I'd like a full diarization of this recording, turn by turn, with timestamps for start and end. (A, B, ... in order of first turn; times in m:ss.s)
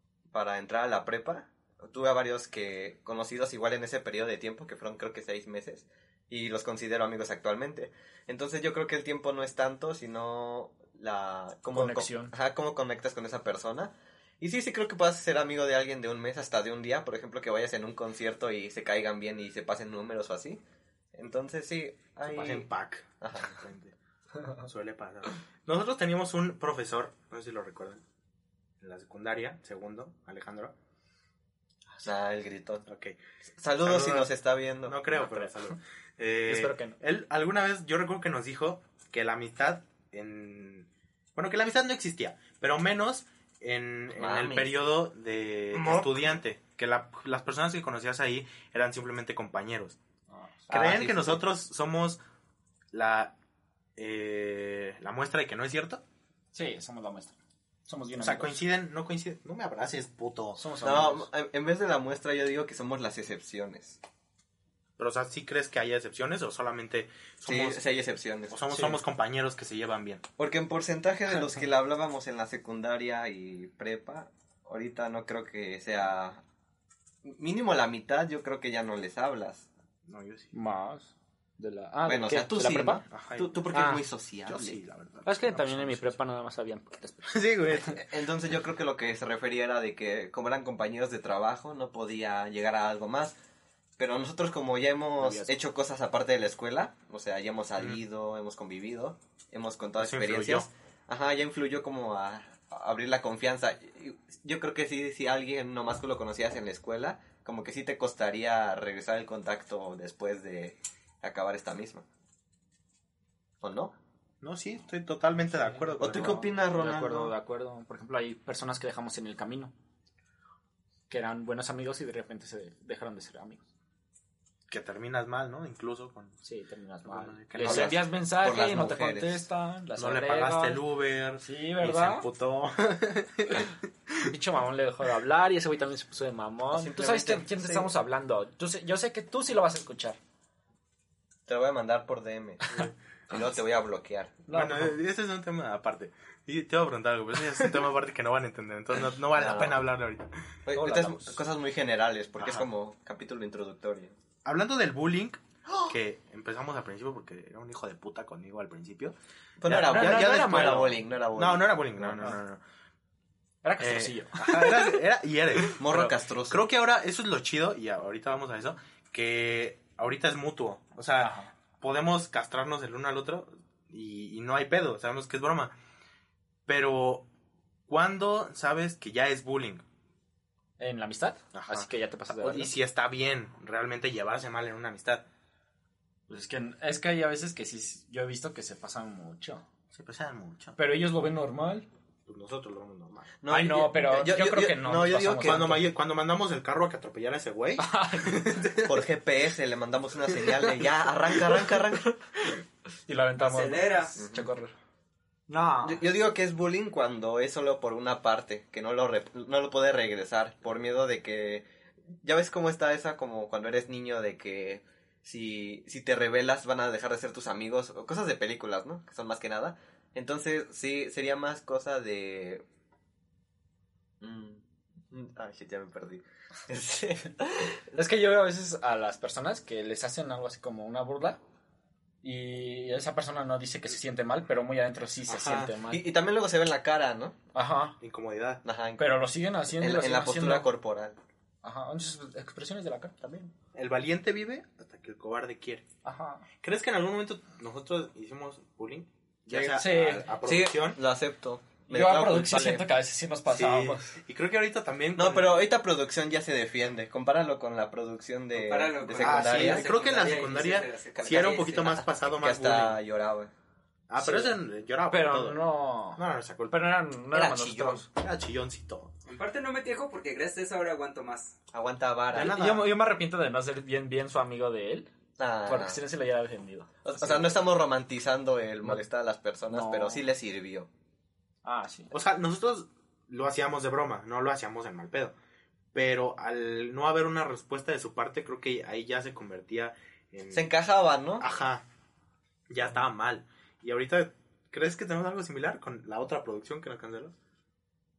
0:00.3-0:20.6 A
0:11.7-0:12.3 B
0:21.1-0:22.7 A
0:22.2-0:23.9 C
0:23.2-0:23.6 A
0:24.6-0:28.0 C
0:28.8-0:30.7 C
0:32.0-0:32.8 A
0:32.9-0:33.2 C
0:33.6-0:35.0 A
0:33.8-0:34.3 C
0:34.8-0:50.0 C
0:35.1-0:35.5 B
0:36.4-0:37.0 B
0:44.1-0:44.8 A
0:45.7-0:46.3 A
0:50.3-0:50.9 B
0:50.7-0:51.4 A
0:50.7-0:52.2 C
0:52.9-0:53.3 C
0:54.0-0:56.0 C
0:56.5-0:57.3 B
0:57.8-0:58.6 B
0:58.2-1:00.6 C
1:00.6-1:01.3 B
1:00.8-1:04.0 A
1:05.0-1:07.8 C
1:07.4-1:08.6 A
1:08.5-1:10.2 C
1:08.7-1:09.0 B
1:10.4-1:16.4 A
1:17.2-1:19.7 A
1:20.1-1:20.5 C
1:20.5-1:23.0 B
1:22.0-1:24.8 A
1:23.1-1:23.6 C
1:23.7-1:24.0 B
1:24.5-1:26.2 C
1:25.2-1:27.9 B
1:27.2-1:28.0 C
1:27.8-1:33.4 A
1:34.0-1:52.0 A
1:35.2-1:35.5 B
1:40.0-1:40.7 C
1:53.6-1:54.0 A
1:54.4-1:56.5 C
1:55.5-1:59.7 B
1:56.0-1:57.3 A
2:01.1-2:03.6 B
2:04.7-2:06.4 C
2:06.4-2:10.8 B
2:07.0-2:08.0 C
2:07.6-2:09.4 A
2:10.0-2:14.3 C
2:11.4-2:12.3 B
2:14.3-2:20.2 B
2:16.7-2:17.9 A
2:21.5-2:24.4 A
2:24.5-2:25.0 B
2:24.5-2:30.3 C
2:29.3-2:29.8 A
2:30.6-2:34.1 A
2:30.7-2:31.4 B
2:32.4-2:32.6 C
2:34.4-2:39.1 C
2:39.6-2:42.3 A
2:39.6-2:42.6 C
2:39.8-2:41.0 B
2:43.6-2:45.0 B
2:43.8-2:55.7 C
2:45.7-2:46.0 B
2:45.8-2:46.6 A
2:51.2-2:51.5 B
2:56.7-2:57.2 C
2:57.9-2:59.8 C
3:00.8-3:02.7 B
3:01.5-3:05.2 C
3:06.3-3:09.6 B
3:09.9-3:10.8 C
3:10.8-3:11.9 B
3:12.3-3:13.3 C
3:13.4-3:15.7 A
3:13.5-3:15.9 B
3:15.4-3:19.0 C
3:17.8-3:18.6 B
3:18.8-3:22.1 A
3:22.0-3:22.6 B
3:23.1-3:24.7 B
3:23.4-3:24.1 D
3:24.2-3:24.5 A
3:25.5-3:26.0 B
3:25.8-3:31.6 A
3:32.2-3:42.6 A
3:44.2-3:47.8 A
3:47.9-3:51.4 B
3:52.2-3:56.0 B
3:55.3-3:55.7 C
3:55.8-3:57.4 A
3:57.5-3:58.0 B
3:58.0-3:58.6 C
3:58.6-4:01.2 A
3:59.0-4:00.7 B
4:01.6-4:03.1 B
4:03.2-4:03.5 A
4:03.7-4:05.8 C
4:06.0-4:06.4 B
4:06.6-4:11.0 C
4:09.5-4:12.9 A
4:09.7-4:10.3 B
4:11.9-4:14.2 B
4:13.5-4:15.6 C
4:15.2-4:19.9 A
4:18.5-4:22.0 D
4:19.2-4:23.0 C
4:21.3-4:23.5 A
4:24.1-4:25.6 C
4:24.2-4:24.6 B
4:25.1-4:28.1 B
4:26.1-4:27.0 C
4:27.3-4:28.0 A
4:28.1-4:29.1 C
4:29.2-4:31.5 D
4:31.7-4:32.6 A
4:32.3-4:32.9 C
4:32.3-4:35.1 B
4:35.4-4:36.0 A
4:35.6-4:37.4 B
4:37.0-4:40.9 A
4:39.7-4:40.2 B
4:41.6-4:42.1 B
4:42.1-4:45.3 C
4:45.9-4:50.7 C
4:50.5-4:51.4 A
4:51.4-4:51.8 C
4:52.7-4:57.3 C